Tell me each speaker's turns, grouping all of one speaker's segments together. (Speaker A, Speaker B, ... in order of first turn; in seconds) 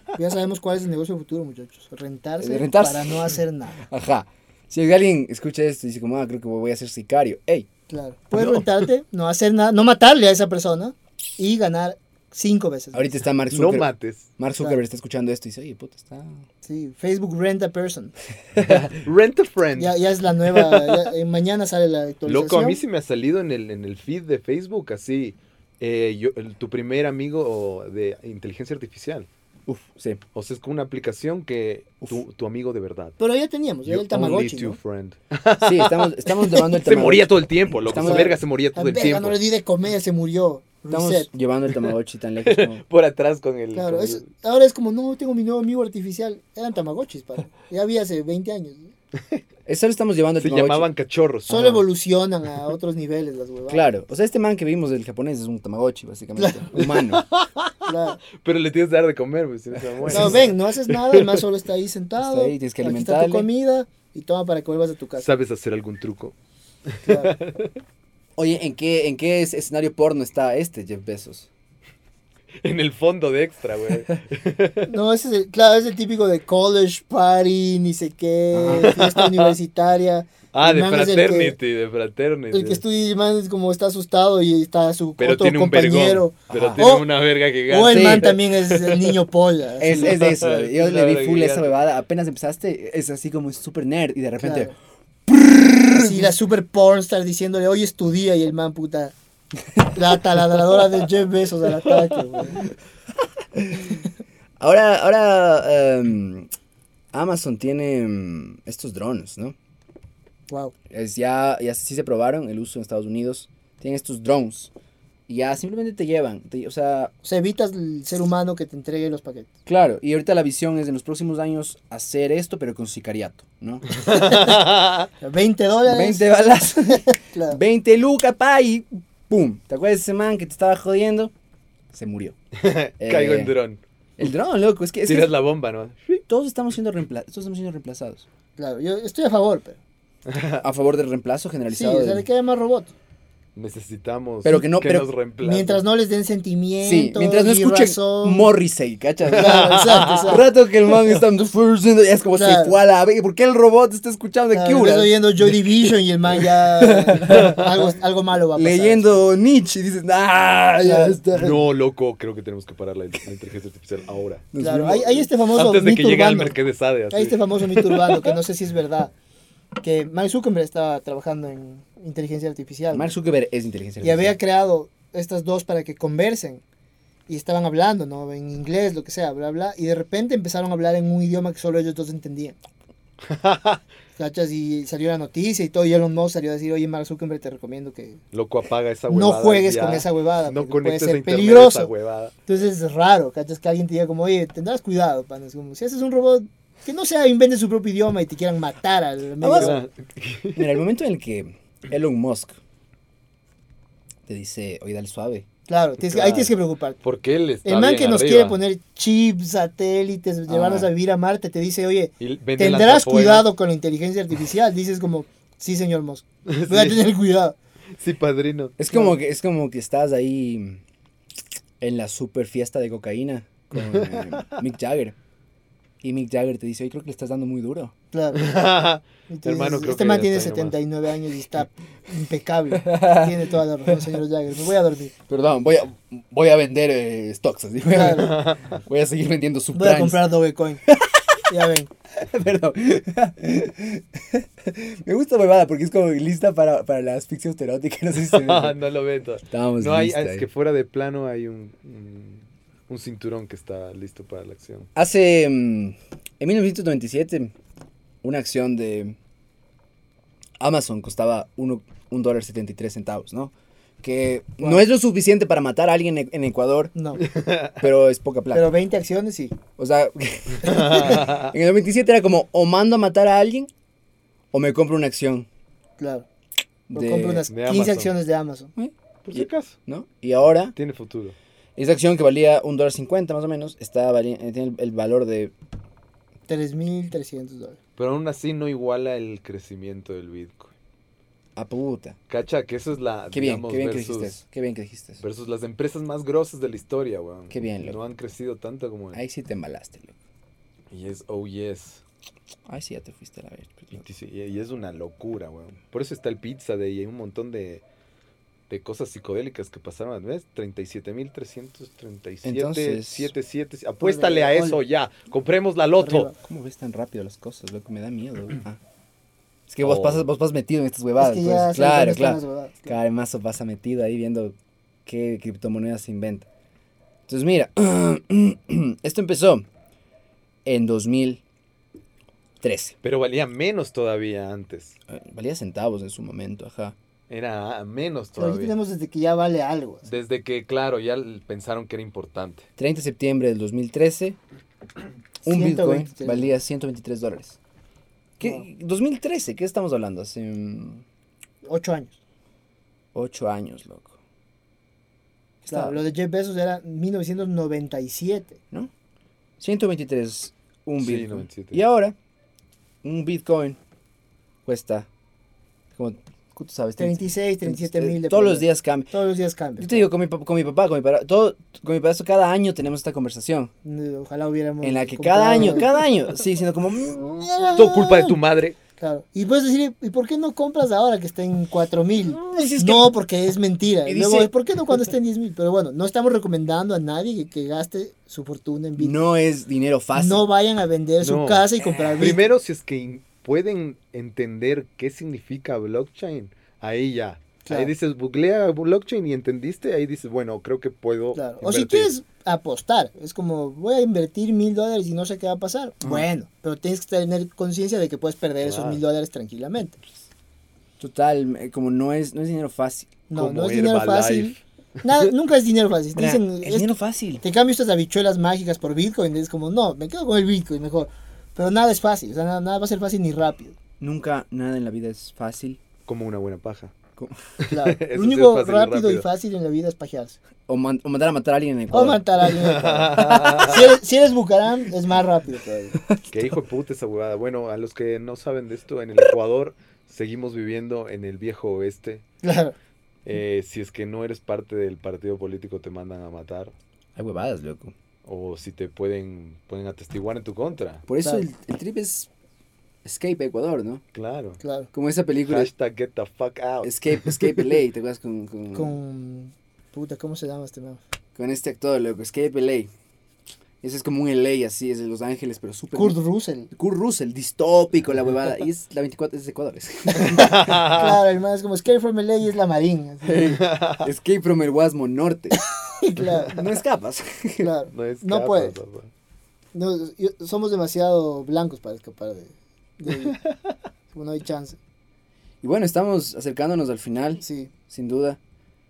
Speaker A: 0.2-3.8, 7.9-13.2, 16.6-18.1, 19.8-22.8, 33.2-34.8, 38.0-41.3, 43.7-48.9, 51.5-53.9, 56.4-56.8, 57.9-58.2, 60.1-65.3, 67.0-67.3, 74.9-81.6, 82.5-87.1, 87.7-90.2, 94.4-94.7, 95.9-99.2, 99.9-102.6, 110.5-110.7, 117.2-119.5, 124.1-124.6, 125.2-127.6, 138.6-139.8, 141.7-142.9, 145.4-148.5, 149.3-150.5, 152.3-152.8, 154.5-159.1, 160.8-161.6, 164.6-166.6, 167.1-169.1, 169.8-173.1, 174.0-176.6, 177.3-182.6, 184.2-188.2, 189.1-191.9, 192.5-199.8, 205.7-207.0, 207.7-217.6, 218.9-219.2, 228.1-228.4, 229.3-235.1, 237.9-238.3, 239.7-240.8, 241.5-241.9, 266.9-267.2, 268.5-269.6, 270.7-271.4, 276.0-276.3, 276.9-278.7, 286.5-287.8, 314.0-314.8, 316.0-316.4, 321.2-323.0, 338.4-340.1, 345.4-346.6, 351.7-352.2, 355.7-358.6, 367.0-370.1, 373.9-376.0, 377.4-378.4, 379.0-389.2, 390.1-392.4, 397.6-397.9, 401.4-410.0, 413.3-423.8, 427.7-430.4, 431.9-436.0, 442.4-442.8, 454.6-454.9, 458.7-461.0, 465.9-466.7, 470.8-473.4, 476.0-476.6, 477.6-478.8, 479.7-483.4, 484.1-484.8, 487.4-487.7
Speaker B: 2.4-7.7, 12.9-16.4, 18.6-18.9, 29.7-30.2, 35.6-38.4, 40.9-42.8, 49.7-50.9, 53.7-57.2, 60.0-60.5, 62.2-63.5, 68.4-71.5, 78.5-78.9, 86.5-86.8, 87.8-88.4, 89.8-94.7, 95.3-96.3, 103.5-104.0, 104.6-106.5, 107.1-109.6, 110.9-114.7, 115.3-117.1, 119.7-124.0, 125.9-131.3, 131.9-132.4, 133.0-133.6, 134.2-135.3, 136.2-138.2, 140.6-142.3, 144.4-145.1, 146.8-157.9, 158.6-161.6, 164.5-165.3, 172.9-174.4, 199.4-199.8, 200.6-202.6, 204.3-205.5, 210.5-210.9, 218.8-220.8, 221.8-225.2, 226.0-227.9, 232.7-234.2, 235.3-240.3, 240.9-241.4, 242.2-248.8, 249.5-250.5, 254.9-257.5, 258.2-259.2, 260.6-266.9, 267.8-268.8, 269.8-273.7, 274.5-275.5, 276.9-277.4, 278.8-280.7, 281.8-285.5, 291.6-292.2, 293.3-295.2, 297.5-298.0, 299.1-300.1, 302.7-304.0, 312.4-313.3, 316.4-318.8, 319.7-324.6, 325.1-326.5, 327.3-329.7, 330.6-331.4, 332.6-333.0, 335.1-337.0, 342.8-344.4, 345.4-347.6, 348.4-351.0, 353.1-354.1, 355.6-356.0, 359.6-362.2, 363.0-363.8, 364.7-365.1, 365.9-369.1, 369.8-373.7, 374.8-377.5, 382.3-383.1, 384.1-385.1, 389.0-390.4, 391.8-392.4, 411.0-413.1, 416.1-417.4, 424.0-425.8, 430.7-433.8, 435.9-436.6, 447.2-447.9, 451.1-452.3, 453.0-454.0, 454.9-455.7, 456.8-458.9, 461.4-462.9, 463.8-466.2, 466.7-470.6, 473.2-475.6, 476.5-477.7, 485.6-488.4
Speaker C: 8.4-8.8, 13.5-14.3, 18.7-21.1, 22.3-29.3, 30.3-33.2, 33.9-39.4, 42.4-44.3, 50.4-51.9, 56.8-61.4, 65.2-66.3, 66.9-67.8, 72.6-74.9, 78.8-79.5, 80.5-82.8, 85.2-89.2, 89.9-91.7, 123.9-125.1, 132.6-133.8, 135.1-136.2, 140.3-140.6, 143.6-145.8, 149.3-150.4, 157.3-157.7, 161.4-164.5, 165.5-168.3, 183.2-183.8, 188.3-192.3, 199.6-200.8, 206.0-208.6, 212.2-213.5, 216.5-217.0, 218.0-218.8, 223.8-224.6, 228.4-230.8, 238.0-238.8, 248.3-254.9, 267.2-267.8, 270.6-271.5, 277.5-278.1, 279.2-279.8, 280.8-281.4, 288.0-290.7, 292.3-294.4, 295.2-299.2, 300.9-302.0, 304.0-307.8, 308.7-316.3, 319.8-320.2, 333.0-335.0, 337.3-338.8, 340.1-342.7, 361.0-361.8, 377.8-378.8, 391.2-402.1, 408.6-409.0, 413.4-415.3, 426.1-426.9, 427.6-429.3, 432.5-433.9, 436.3-442.2, 443.3-446.7, 448.3-451.0, 454.1-454.6, 455.5-457.6, 470.2-471.2, 473.4-474.1, 477.9-479.1